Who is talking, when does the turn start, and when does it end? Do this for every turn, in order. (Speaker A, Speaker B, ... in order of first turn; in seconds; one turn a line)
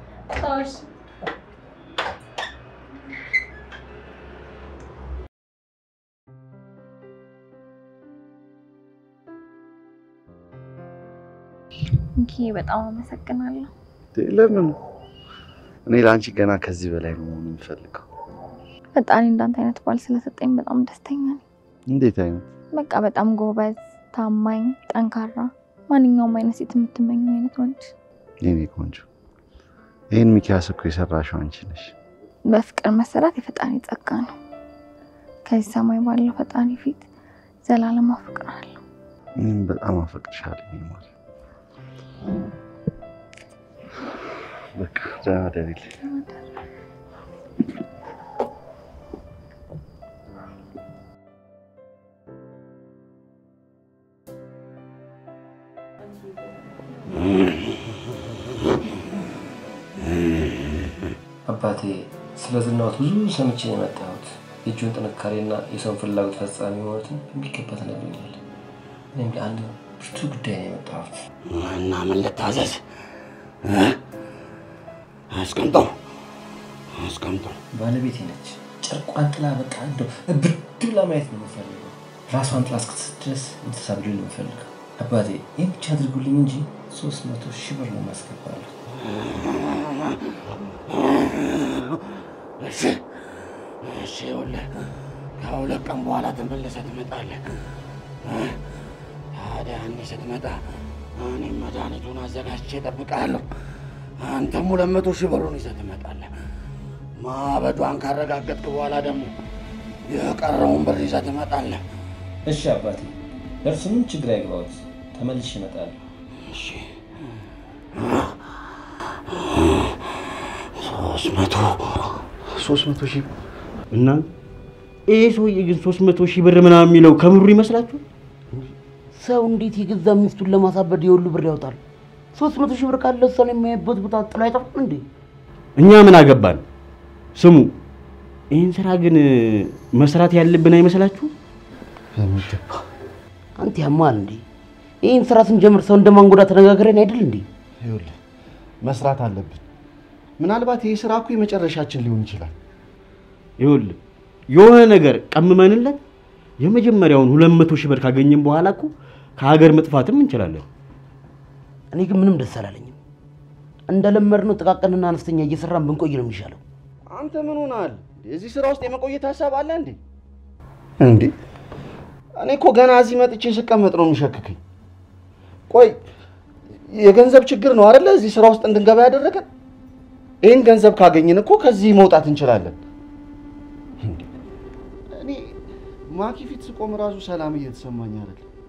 Speaker A: 0.3-0.8
Speaker A: 12.2-13.7
Speaker B: 14.1-14.7
Speaker B: 15.8-18.1
Speaker A: 18.9-21.4
Speaker B: 21.9-22.4
Speaker A: 22.7-27.9
Speaker B: 28.4-29.1
Speaker B: 30.1-31.9
Speaker A: 32.5-34.3
Speaker A: 35.5-37.1
Speaker A: 37.6-38.8
Speaker B: 39.4-41.1
Speaker B: 44.7-45.9
Speaker A: 46.0-46.4
Speaker C: 57.3-57.8
Speaker C: 60.1-60.9
Speaker D: 61.5-68.4
Speaker D: 69.1-71.2
Speaker C: 71.5-72.8
Speaker C: 73.6-74.0
Speaker C: 75.3-75.9
Speaker C: 77.0-77.6
Speaker D: 77.7-88.7
Speaker C: 89.0-90.2
Speaker C: 90.9-93.0
Speaker C: 93.8-94.7
Speaker C: 95.4-97.4
Speaker C: 98.2-98.6
Speaker C: 99.3-100.6
Speaker C: 101.2-103.4
Speaker C: 104.2-106.3
Speaker C: 107.2-109.3
Speaker C: 110.1-111.8
Speaker D: 112.5-113.1
Speaker D: 113.6-115.9
Speaker C: 116.5-116.9
Speaker C: 118.0-118.3
Speaker C: 119.4-120.0
Speaker C: 120.8-122.2
Speaker B: 122.6-123.3
Speaker E: 123.9-124.2
Speaker E: 125.1-128.0
Speaker F: 129.1-131.8
Speaker F: 132.3-135.0
Speaker E: 135.8-136.6
Speaker E: 137.4-137.7
Speaker E: 138.5-141.3
Speaker B: 142.1-142.6
Speaker F: 143.6-144.4
Speaker F: 145.0-147.4
Speaker B: 147.8-148.2
Speaker B: 148.8-149.6
Speaker B: 150.4-152.5
Speaker E: 153.6-154.0
Speaker E: 154.5-156.0
Speaker E: 156.6-160.7
Speaker F: 161.9-163.0
Speaker F: 163.9-166.6
Speaker B: 167.1-170.0
Speaker B: 171.0-171.3
Speaker B: 172.4-174.6
Speaker B: 175.7-175.9
Speaker B: 176.9-179.5
Speaker B: 180.4-182.8
Speaker B: 185.1-185.6
Speaker B: 186.1-188.5